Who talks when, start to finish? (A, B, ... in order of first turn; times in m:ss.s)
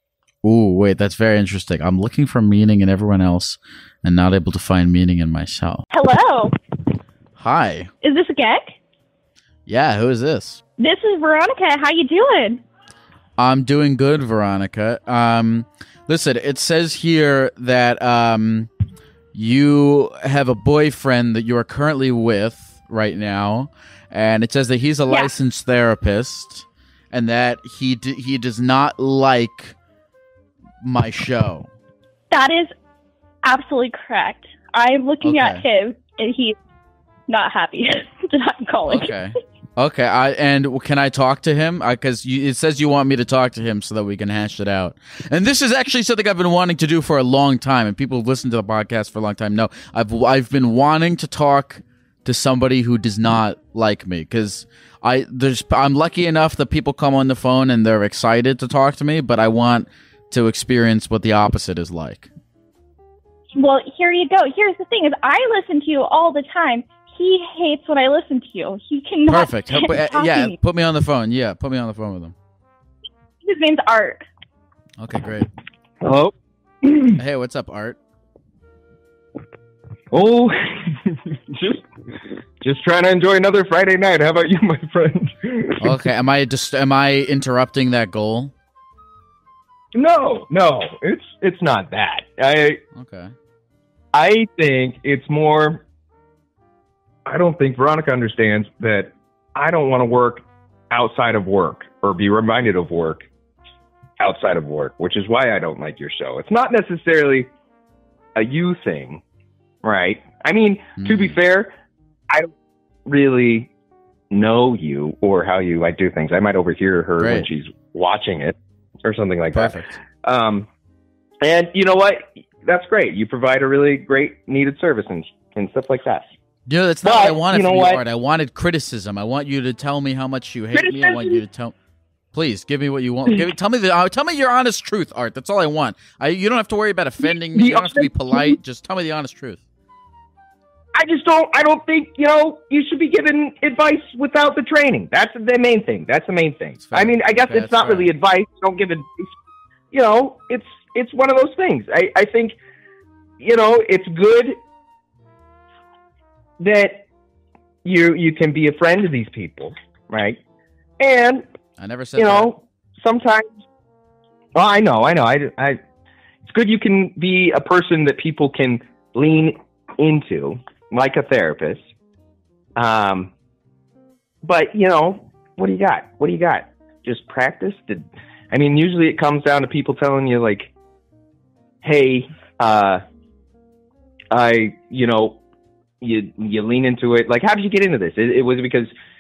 0:00.4-0:05.8 A
0:05.9-0:06.6 B
0:07.4-0:07.9 A
0:08.0-0:08.8 B
0:09.7-0:10.6 A
0:10.8-0:12.6 B
0:13.4-0:18.7 A
0:19.3-0:29.8 A
0:30.8-0:31.7 A
0:32.3-0:32.7 B
0:33.4-0:36.6 B
0:35.2-0:35.6 A
0:37.3-0:39.1 B
0:38.9-1:02.3 A
1:03.6-1:10.6 B
1:09.3-1:12.4 A
1:13.4-1:14.2 B
1:15.0-1:15.5 A
1:16.0-1:17.2 C
1:17.2-1:18.0 A
1:20.1-1:21.9 C
1:22.6-1:26.0 C
1:25.8-1:28.5 A
1:29.9-1:32.8 C
1:33.0-1:33.3 A
1:34.1-1:35.8 C
1:37.3-1:43.3 C
1:44.2-1:47.5 C
1:48.4-1:49.2 C
1:49.8-1:51.7 C
1:51.0-1:51.4 A
1:53.1-1:53.7 C
1:54.3-2:00.7 C
1:57.2-1:57.5 A
1:59.5-2:00.0 A
2:01.4-2:06.3 C
2:06.7-2:11.8 A
2:07.0-2:08.0 C
2:10.7-2:11.4 C
2:12.3-2:19.6 A
2:17.6-2:18.6 C
2:20.9-2:29.3 C
2:26.8-2:28.1 A
2:29.9-2:32.6 C
2:33.4-2:34.6 C
2:36.6-2:37.1 C
2:37.8-2:40.4 C
2:41.0-2:41.5 C
2:41.8-2:42.5 A
2:42.2-2:43.5 C
2:44.6-2:45.8 C
2:46.4-2:51.8 C
2:52.8-2:53.3 C
2:54.4-3:00.7 C
3:01.8-3:03.0 C
3:04.3-3:05.4 C
3:06.0-3:08.9 C